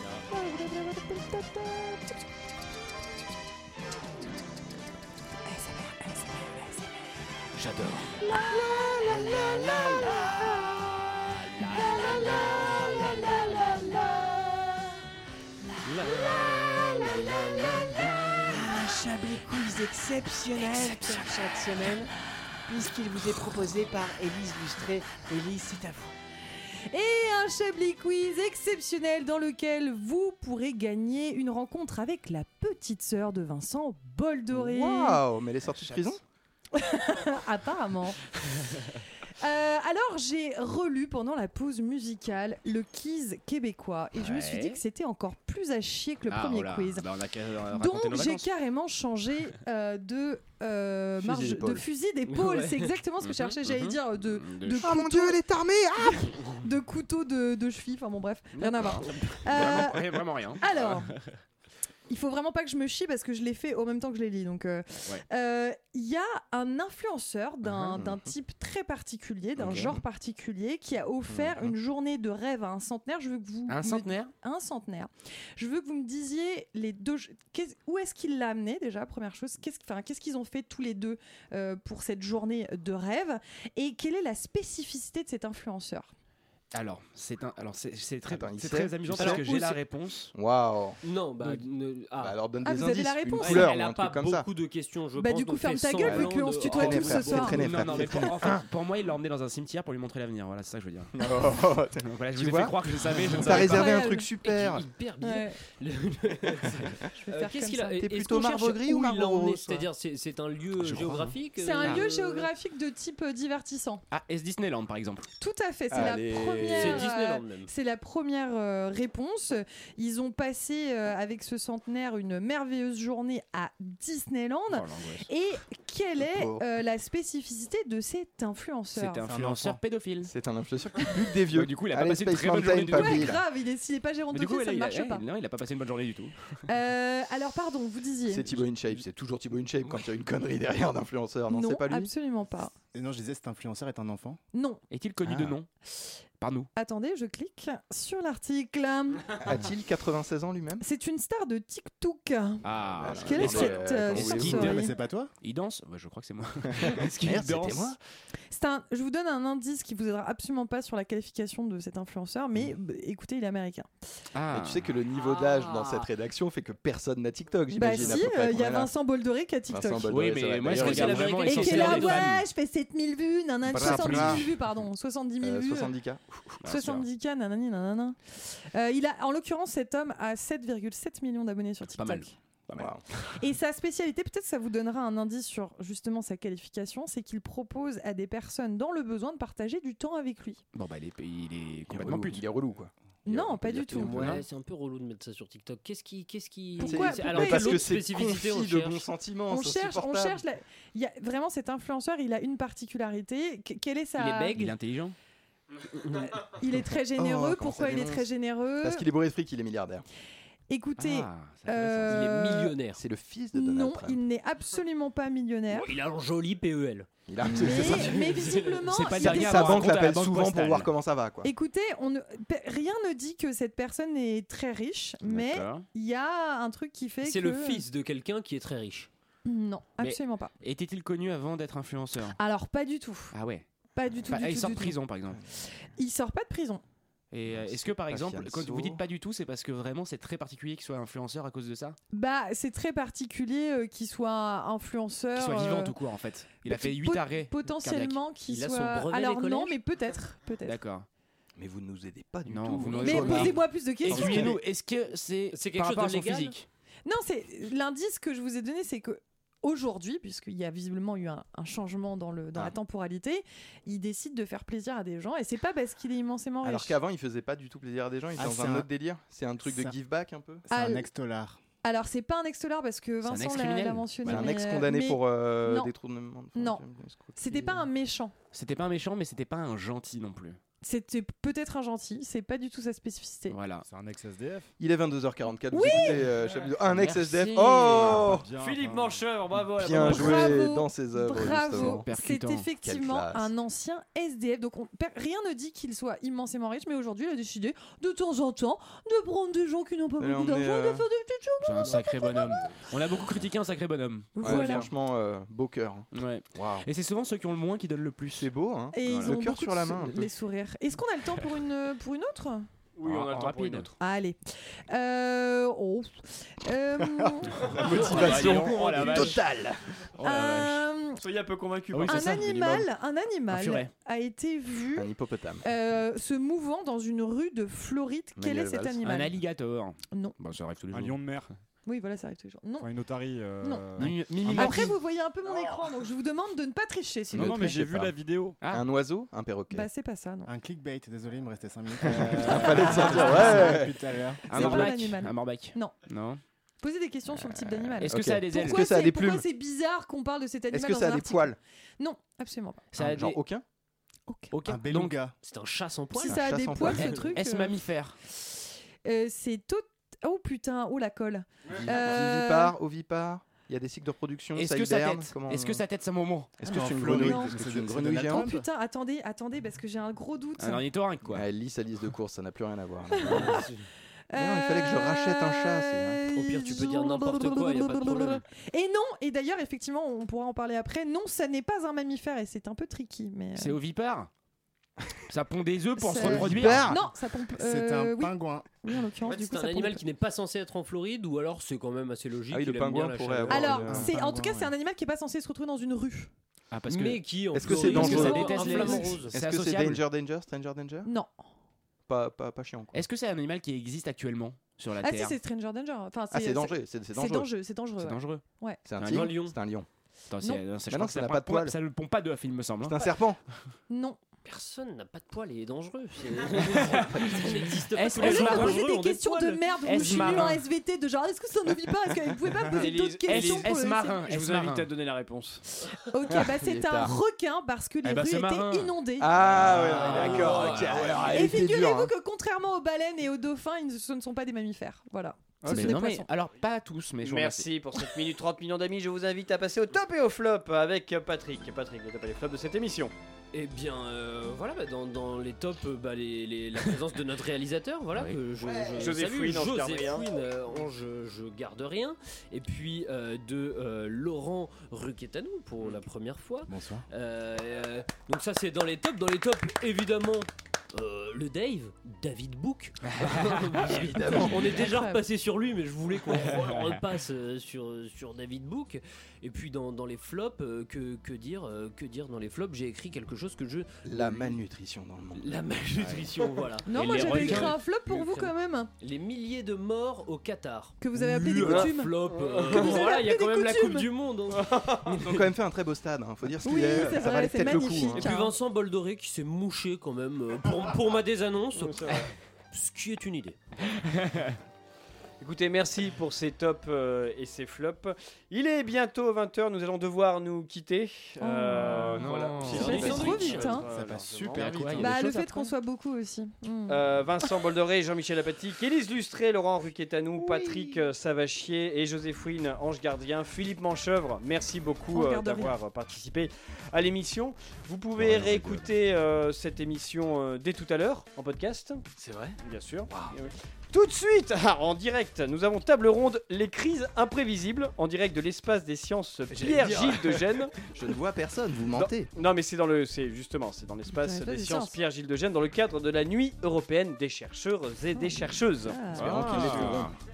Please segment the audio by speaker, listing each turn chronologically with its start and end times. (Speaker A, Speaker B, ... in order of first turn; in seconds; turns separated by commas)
Speaker A: 0.3-2.2, Speaker A: 5.4-6.9, Speaker B: 7.5-8.4, Speaker A: 8.2-11.1, Speaker B: 11.5-12.4, Speaker A: 11.9-12.5, Speaker C: 15.9-16.3, Speaker D: 16.3-17.2, Speaker D: 18.4-22.1, Speaker D: 22.7-26.1, Speaker A: 26.9-35.2, Speaker E: 34.5-36.2, Speaker A: 36.7-38.4, Speaker A: 39.4-47.1, Speaker B: 44.1-44.8, Speaker B: 46.3-48.5, Speaker A: 47.6-55.4, Speaker E: 51.2-51.9, Speaker C: 52.2-52.9, Speaker B: 53.2-55.0, Speaker E: 54.8-55.4, Speaker D: 55.2-56.4, Speaker A: 56.0-61.1, Speaker B: 58.5-61.1, Speaker A: 62.1-86.1, Speaker E: 67.6-68.3, Speaker E: 69.6-70.0, Speaker B: 69.6-69.9, Speaker E: 71.3-71.8, Speaker B: 73.7-74.3, Speaker B: 86.7-90.3, Speaker E: 88.3-89.5, Speaker C: 89.2-89.7, Speaker E: 90.3-91.6, Speaker C: 91.0-92.4, Speaker E: 92.2-94.5, Speaker A: 92.6-93.7, Speaker C: 93.4-98.6, Speaker A: 95.2-97.7, Speaker E: 96.0-98.6, Speaker B: 97.5-101.3, Speaker E: 101.2-102.8, Speaker B: 102.0-104.0, Speaker E: 103.3-104.8, Speaker C: 103.3-103.7, Speaker A: 103.5-104.3, Speaker C: 104.4-112.5, Speaker A: 105.2-105.6, Speaker A: 107.2-108.0, Speaker E: 107.9-109.9, Speaker B: 110.9-112.1, Speaker A: 111.5-114.0, Speaker B: 114.1-115.3, Speaker A: 115.4-129.3, Speaker E: 115.9-117.1, Speaker C: 116.7-117.7, Speaker B: 124.7-125.3, Speaker E: 126.2-126.6, Speaker B: 128.9-130.3, Speaker F: 129.3-129.8, Speaker E: 130.2-133.4, Speaker B: 131.5-133.4, Speaker A: 132.9-135.2, Speaker B: 134.3-136.4, Speaker A: 136.7-138.5, Speaker E: 138.3-142.1, Speaker A: 141.5-142.7, Speaker F: 142.9-144.4, Speaker A: 144.5-144.8, Speaker B: 144.9-145.7, Speaker F: 145.2-145.6, Speaker B: 146.4-146.7, Speaker A: 146.8-149.7, Speaker E: 149.4-150.8, Speaker A: 150.8-154.9, Speaker B: 152.6-154.9, Speaker E: 152.9-154.8, Speaker F: 154.4-155.3, Speaker B: 155.4-158.0, Speaker E: 156.8-158.0, Speaker A: 158.5-163.9, Speaker B: 164.3-164.8, Speaker E: 164.5-168.9, Speaker C: 165.3-165.9, Speaker A: 167.7-170.1, Speaker E: 169.7-171.4, Speaker B: 170.1-172.4, Speaker C: 170.7-172.3, Speaker A: 171.4-175.9, Speaker E: 173.7-174.5, Speaker B: 173.7-174.6, Speaker E: 175.4-176.6, Speaker B: 176.6-177.0, Speaker A: 176.6-182.3, Speaker B: 182.0-183.4, Speaker E: 182.7-183.0, Speaker A: 183.4-190.6, Speaker B: 190.7-192.4, Speaker E: 191.9-194.4, Speaker A: 193.2-194.4, Speaker B: 193.9-194.4, Speaker C: 193.9-199.1, Speaker A: 196.8-197.9, Speaker E: 196.8-200.4, Speaker A: 199.5-204.7, Speaker C: 204.2-204.7, Speaker B: 204.5-205.1, Speaker C: 206.0-206.3, Speaker A: 206.2-209.1, Speaker E: 207.1-210.1, Speaker A: 210.7-212.8, Speaker B: 211.0-212.2, Speaker C: 212.1-213.0, Speaker E: 212.9-214.2, Speaker A: 213.5-215.9, Speaker C: 215.7-219.3, Speaker E: 217.3-218.2, Speaker A: 217.6-219.9, Speaker B: 218.8-220.9, Speaker E: 219.2-221.5, Speaker A: 221.4-227.8, Speaker B: 225.2-225.9, Speaker C: 227.2-229.1, Speaker A: 229.4-230.5, Speaker B: 230.0-232.4, Speaker A: 232.4-233.4, Speaker B: 233.3-233.7, Speaker A: 233.9-235.0, Speaker B: 234.2-235.4, Speaker A: 235.6-236.8, Speaker B: 237.3-242.0, Speaker E: 237.5-239.0, Speaker A: 242.1-246.0, Speaker B: 245.3-248.2, Speaker A: 246.6-250.8, Speaker C: 248.5-249.8, Speaker B: 250.6-251.1, Speaker E: 251.6-254.6, Speaker B: 252.5-256.6, Speaker A: 253.0-254.6, Speaker C: 255.5-256.6, Speaker A: 257.1-267.0, Speaker E: 266.6-270.7, Speaker F: 268.4-268.9, Speaker F: 269.6-269.9, Speaker A: 270.7-271.1, Speaker F: 270.7-271.6, Speaker A: 271.8-275.9, Speaker B: 273.2-274.5, Speaker E: 274.2-277.9, Speaker A: 276.6-276.8, Speaker A: 277.3-278.3, Speaker B: 278.5-280.6, Speaker A: 280.8-283.6, Speaker B: 283.5-283.9, Speaker G: 283.8-284.7, Speaker E: 284.8-288.4, Speaker A: 285.7-286.2, Speaker B: 286.9-288.3, Speaker G: 288.2-289.3, Speaker C: 288.6-290.6, Speaker E: 289.7-292.1, Speaker A: 289.9-302.8, Speaker B: 291.4-292.7, Speaker E: 292.8-293.5, Speaker E: 300.2-301.1, Speaker B: 301.6-304.8, Speaker A: 304.4-304.9, Speaker E: 304.4-306.9, Speaker B: 306.1-309.4, Speaker E: 308.3-310.3, Speaker A: 308.9-312.7, Speaker H: 312.9-313.9, Speaker B: 313.0-313.9, Speaker A: 314.0-317.7, Speaker E: 317.3-319.8, Speaker C: 317.8-319.4, Speaker B: 317.9-319.4, Speaker B: 320.2-320.9, Speaker A: 320.2-321.2, Speaker H: 321.2-322.8, Speaker G: 321.9-322.5, Speaker B: 322.1-322.3, Speaker A: 322.1-325.1, Speaker B: 323.5-323.9, Speaker E: 324.9-325.6, Speaker A: 325.6-329.4, Speaker E: 328.4-329.0, Speaker B: 329.0-331.2, Speaker G: 330.9-331.5, Speaker A: 331.9-332.9, Speaker G: 332.8-334.8, Speaker A: 333.6-333.9, Speaker B: 333.9-335.0, Speaker E: 334.4-334.7, Speaker A: 334.5-337.9, Speaker E: 337.3-338.1, Speaker G: 337.3-338.6, Speaker E: 338.7-339.9, Speaker A: 339.7-340.5, Speaker F: 340.4-344.5, Speaker E: 342.0-345.0, Speaker A: 342.5-343.8, Speaker B: 344.5-346.4, Speaker A: 344.5-346.0, Speaker A: 346.8-352.9, Speaker B: 347.8-348.9, Speaker E: 348.1-349.4, Speaker E: 350.7-351.6, Speaker B: 352.9-353.4, Speaker E: 352.9-353.6, Speaker B: 354.5-355.2, Speaker F: 354.6-355.3, Speaker C: 355.4-356.6, Speaker A: 356.1-362.7, Speaker E: 356.2-357.2, Speaker B: 356.9-358.2, Speaker E: 361.8-365.8, Speaker B: 364.5-366.6, Speaker E: 366.6-368.5, Speaker F: 366.6-368.6, Speaker A: 367.0-367.6, Speaker A: 368.3-370.9, Speaker B: 370.6-371.5, Speaker E: 371.3-373.7, Speaker A: 373.2-373.7, Speaker A: 374.3-383.8, Speaker E: 374.3-376.2, Speaker C: 376.3-378.4, Speaker B: 383.5-384.3, Speaker B: 385.3-387.0, Speaker A: 386.0-390.0, Speaker E: 386.2-387.0, Speaker F: 386.4-388.7, Speaker C: 389.2-394.1, Speaker E: 392.5-394.1, Speaker A: 393.5-396.3, Speaker F: 393.9-394.7, Speaker B: 396.7-400.0, Speaker C: 396.9-399.3, Speaker E: 397.5-398.6, Speaker A: 397.7-399.2, Speaker E: 399.3-401.1, Speaker A: 401.0-401.4, Speaker E: 402.1-403.0, Speaker B: 402.9-405.4, Speaker A: 405.0-408.8, Speaker E: 406.3-407.5, Speaker B: 408.0-408.4, Speaker E: 408.9-409.9, Speaker B: 409.0-409.3, Speaker C: 409.0-409.5, Speaker B: 410.3-413.1, Speaker E: 410.9-411.8, Speaker E: 412.8-413.4, Speaker A: 413.9-414.2, Speaker C: 414.4-420.5, Speaker B: 416.6-418.9, Speaker A: 418.1-424.3, Speaker B: 419.8-420.6, Speaker H: 422.7-423.7, Speaker B: 423.2-424.9, Speaker H: 424.2-425.6, Speaker A: 425.9-429.4, Speaker E: 426.4-427.1, Speaker B: 428.0-429.0, Speaker E: 429.2-432.1, Speaker B: 429.6-430.7, Speaker C: 429.6-431.6, Speaker H: 429.9-430.9, Speaker A: 431.3-436.3, Speaker B: 435.7-437.7, Speaker H: 437.2-443.1, Speaker C: 443.5-474.6, Speaker H: 448.9-450.3, Speaker F: 456.7-457.1, Speaker B: 463.1-463.7, Speaker E: 463.7-464.8, Speaker A: 464.4-465.2, Speaker E: 474.0-475.6, Speaker C: 475.4-485.4, Speaker A: 476.9-478.9, Speaker B: 476.9-477.8, Speaker A: 481.0-484.1, Speaker H: 481.6-482.9, Speaker H: 484.6-485.0, Speaker E: 485.1-488.3, Speaker A: 486.6-488.5, Speaker C: 488.0-492.2, Speaker H: 491.8-492.3, Speaker C: 492.7-493.6, Speaker H: 495.4-504.9, Speaker A: 501.4-503.9, Speaker G: 501.9-502.6, Speaker B: 502.1-503.4, Speaker C: 502.6-503.8, Speaker F: 503.8-505.7, Speaker B: 504.6-505.2, Speaker A: 504.9-507.5, Speaker H: 506.9-522.0, Speaker A: 515.1-515.7, Speaker B: 518.2-518.9, Speaker E: 522.2-522.6, Speaker H: 522.6-530.7, Speaker E: 523.1-523.4, Speaker E: 529.5-532.3, Speaker H: 531.9-539.9, Speaker A: 534.1-535.0, Speaker A: 538.1-539.9, Speaker G: 539.1-540.1, Speaker E: 539.1-540.1, Speaker B: 539.6-540.1